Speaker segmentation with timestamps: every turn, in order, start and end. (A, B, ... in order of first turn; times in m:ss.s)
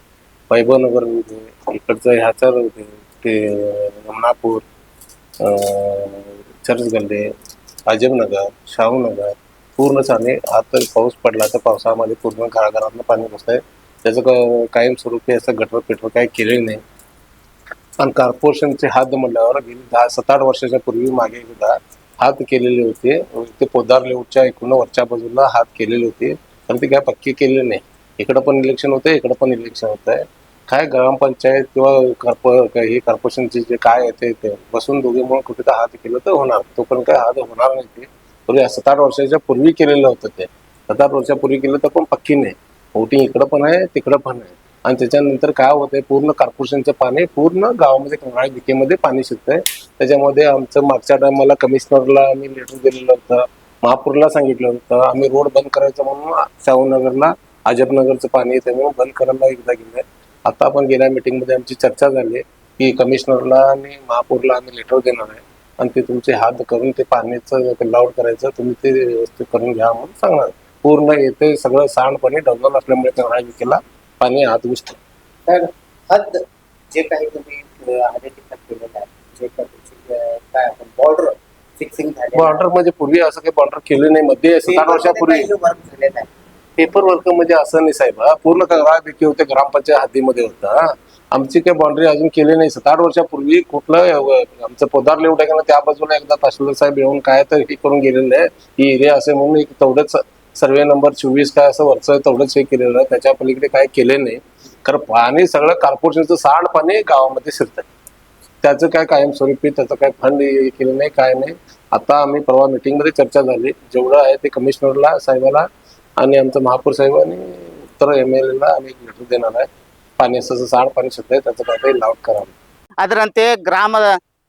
0:00.5-0:04.6 A
0:05.4-0:07.3 A
0:07.9-0:16.8 A
0:18.0-1:15.0 A
1:15.5-1:16.4 B
1:16.9-1:22.6 B
1:22.4-1:25.5 A
1:24.6-1:26.3 B
1:26.8-1:47.9 A
1:48.6-1:55.7 A
1:56.2-2:02.5 A
2:03.0-2:04.1 B